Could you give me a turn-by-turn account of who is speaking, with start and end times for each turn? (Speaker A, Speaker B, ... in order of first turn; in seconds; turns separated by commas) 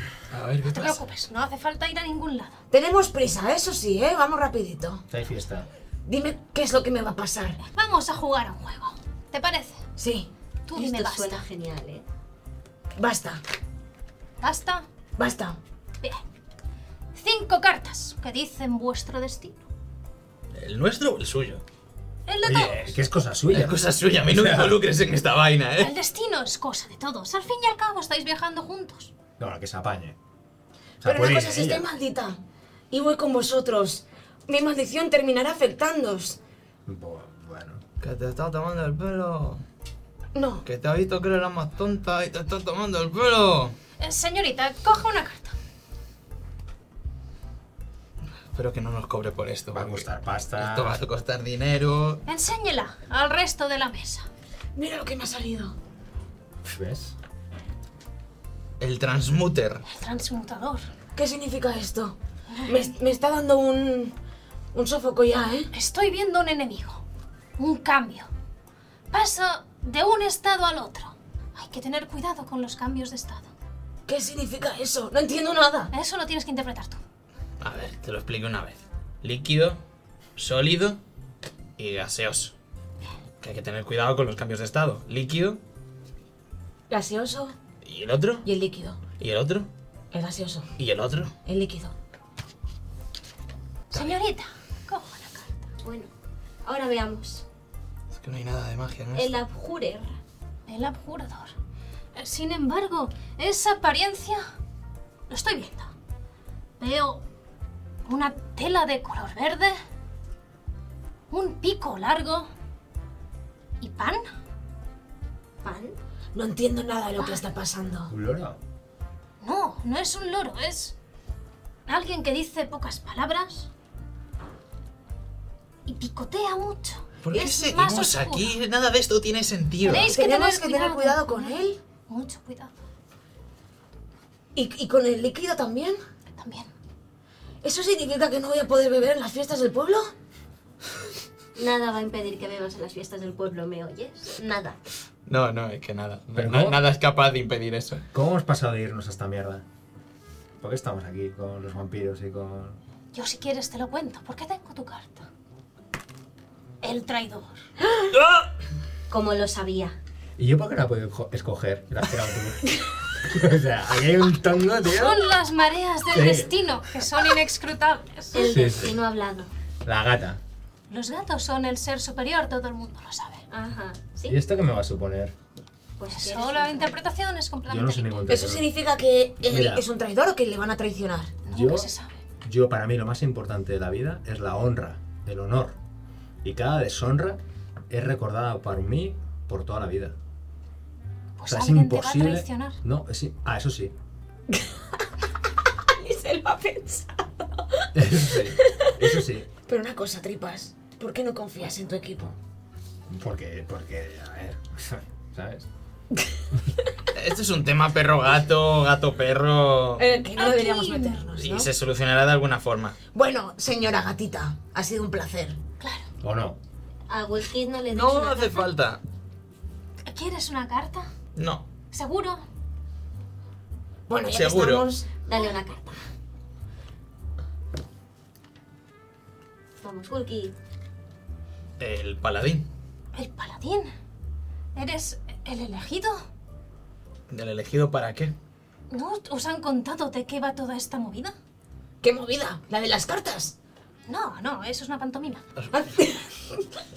Speaker A: 0.3-1.0, Speaker B: 0.7-2.5, Speaker C: 2.7-5.0, Speaker D: 5.1-5.7, Speaker C: 6.0-7.6, Speaker B: 7.7-9.8, Speaker C: 10.0-10.3, Speaker B: 10.7-11.4, Speaker E: 10.7-12.0, Speaker C: 12.9-13.4, Speaker B: 14.4-14.8, Speaker C: 15.2-15.6, Speaker B: 17.1-19.6, Speaker A: 20.5-21.6, Speaker B: 22.3-22.9, Speaker D: 22.4-24.8, Speaker A: 23.5-25.9, Speaker B: 25.8-29.1, Speaker D: 29.4-30.1, Speaker D: 31.0-31.9, Speaker C: 31.0-32.4, Speaker C: 32.9-36.4, Speaker D: 36.9-37.8, Speaker A: 38.0-39.6, Speaker C: 40.3-40.6, Speaker A: 40.6-43.7, Speaker B: 44.0-45.5, Speaker A: 48.5-50.0, Speaker D: 49.7-51.0, Speaker A: 50.5-52.2, Speaker B: 52.2-54.2, Speaker C: 54.8-55.7, Speaker D: 56.6-57.1, Speaker A: 58.8-59.8, Speaker B: 59.9-60.8, Speaker C: 61.1-62.1, Speaker C: 62.6-64.1, Speaker C: 64.7-65.7, Speaker B: 65.7-67.0, Speaker B: 67.6-68.3, Speaker B: 69.1-73.5, Speaker C: 74.1-75.9, Speaker B: 75.9-77.0, Speaker A: 77.6-79.8, Speaker A: 80.4-81.0, Speaker A: 81.8-82.5, Speaker A: 83.4-85.6, Speaker C: 86.9-87.5, Speaker A: 87.8-88.5, Speaker C: 88.4-89.0, Speaker A: 89.2-89.7, Speaker C: 90.1-90.7, Speaker A: 90.8-91.3, Speaker C: 91.4-91.9, Speaker B: 93.9-95.5, Speaker E: 95.8-96.1, Speaker E: 96.6-97.4, Speaker A: 98.2-99.3, Speaker E: 99.1-100.2, Speaker B: 100.7-101.5, Speaker B: 102.2-104.4, Speaker B: 105.3-105.9, Speaker B: 106.8-107.2, Speaker B: 108.0-109.8, Speaker B: 111.3-112.5, Speaker B: 113.8-114.3, Speaker E: 115.6-116.0, Speaker C: 116.3-118.1, Speaker D: 118.1-118.6, Speaker B: 119.4-120.9, Speaker B: 121.9-123.7, Speaker B: 125.8-128.5, Speaker A: 127.2-130.1, Speaker B: 129.8-132.7, Speaker C: 129.8-131.8, Speaker C: 134.5-136.0, Speaker B: 136.4-136.7, Speaker C: 137.6-140.1, Speaker E: 141.6-144.8, Speaker A: 145.2-148.0, Speaker D: 146.3-146.8, Speaker D: 148.1-149.6, Speaker D: 150.6-152.8, Speaker B: 153.1-155.2, Speaker B: 156.8-157.5, Speaker E: 159.1-159.9, Speaker D: 160.4-165.2, Speaker B: 164.9-168.5, Speaker D: 166.1-166.5, Speaker E: 168.3-169.5, Speaker D: 168.4-168.9, Speaker D: 169.8-170.4, Speaker B: 170.9-173.4, Speaker E: 173.5-174.4, Speaker D: 174.3-175.3, Speaker E: 176.0-176.9, Speaker B: 176.1-178.5, Speaker D: 177.7-178.7, Speaker C: 178.3-181.3, Speaker D: 179.4-179.8, Speaker B: 181.4-182.1, Speaker D: 181.5-181.9, Speaker D: 182.4-185.8, Speaker D: 186.4-190.1, Speaker B: 191.4-192.8, Speaker D: 191.4-193.9, Speaker C: 195.9-197.8, Speaker D: 197.9-199.5, Speaker C: 199.7-202.3, Speaker D: 203.1-205.7, Speaker A: 207.1-210.2, Speaker C: 210.0-211.7, Speaker B: 210.3-211.2, Speaker A: 211.4-212.9, Speaker C: 213.1-215.6, Speaker B: 215.8-216.0, Speaker D: 216.2-216.6, Speaker E: 217.1-218.7, Speaker A: 217.9-219.0, Speaker B: 220.0-221.1, Speaker A: 221.3-221.6, Speaker B: 221.9-222.4, Speaker C: 224.1-225.1, Speaker A: 224.3-224.9, Speaker E: 225.2-226.0, Speaker E: 229.8-230.5, Speaker A: 231.8-232.7, Speaker B: 233.1-233.9, Speaker B: 234.7-236.2, Speaker A: 237.3-238.3, Speaker B: 238.9-241.3, Speaker C: 242.0-243.5, Speaker B: 244.1-245.4, Speaker C: 245.7-246.6